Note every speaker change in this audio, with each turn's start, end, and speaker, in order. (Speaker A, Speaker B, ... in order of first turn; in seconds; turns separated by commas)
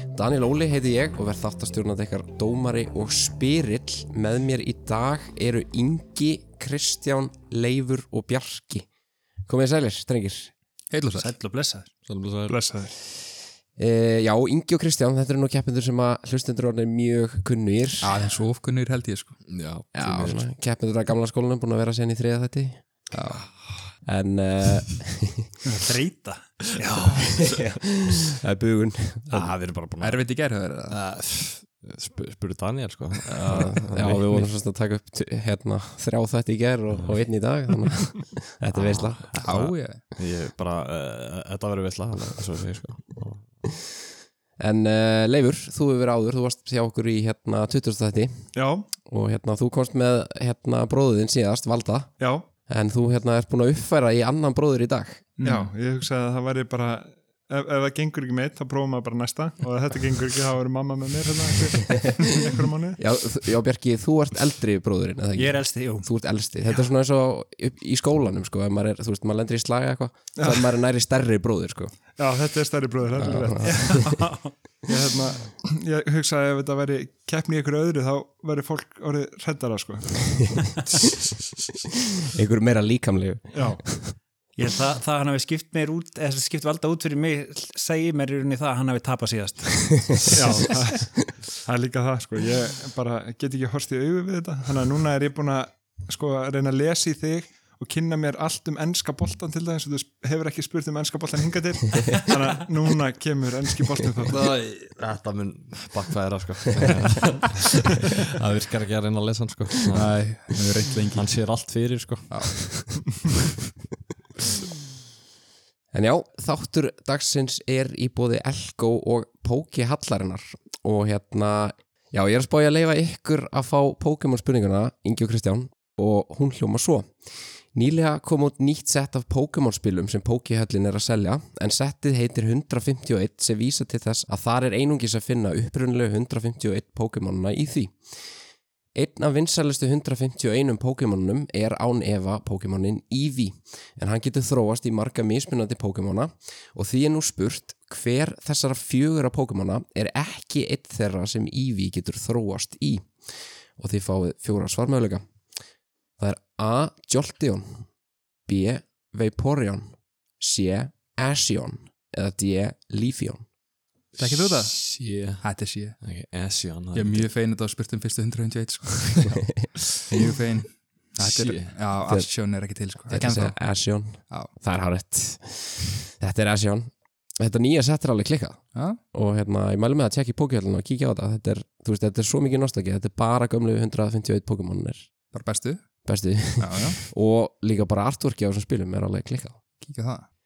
Speaker A: 0.1-8.9, Speaker A: 9.5-10.5, Speaker B: 10.9-11.3, Speaker C: 11.1-11.9, Speaker D: 12.1-12.6, Speaker E: 12.5-12.9, Speaker A: 13.8-18.1, Speaker B: 18.0-19.4, Speaker D: 19.4-20.4, Speaker A: 19.9-22.8, Speaker B: 23.1-23.6, Speaker D: 23.4-23.8, Speaker A: 24.1-25.5, Speaker C: 25.6-27.4, Speaker D: 26.9-27.8, Speaker A: 27.5-29.6, Speaker D: 29.3-30.3, Speaker B: 30.0-31.0, Speaker D: 30.9-34.5, Speaker A: 33.4-39.4, Speaker D: 38.8-43.7, Speaker B: 39.4-40.0, Speaker A: 44.6-52.1, Speaker E: 48.5-48.9, Speaker E: 52.2-52.5, Speaker A: 52.7-55.3, Speaker C: 55.4-55.7, Speaker E: 55.4-63.0, Speaker A: 63.0-72.0, Speaker C: 65.3-66.1, Speaker E: 70.4-70.7, Speaker E: 72.2-74.2, Speaker A: 73.2-74.1, Speaker C: 73.6-74.5, Speaker E: 74.8-80.7, Speaker A: 82.3-84.1, Speaker E: 83.5-83.8, Speaker C: 84.6-90.6, Speaker E: 90.3-104.4, Speaker D: 104.2-110.4, Speaker B: 109.9-111.7, Speaker D: 111.1-113.0, Speaker B: 112.3-113.2, Speaker A: 115.9-127.1, Speaker A: 127.7-138.0, Speaker A: 138.9-153.1, Speaker A: 153.8-155.2, Speaker A: 156.2-157.9, Speaker A: 158.5-163.4, Speaker D: 164.2-165.4, Speaker B: 164.2-166.0, Speaker D: 166.0-167.3, Speaker B: 166.9-174.5, Speaker D: 171.2-171.8, Speaker A: 173.1-185.1, Speaker B: 178.8-179.0, Speaker B: 185.3-185.8, Speaker A: 186.1-189.6, Speaker B: 186.6-187.0, Speaker B: 189.8-190.3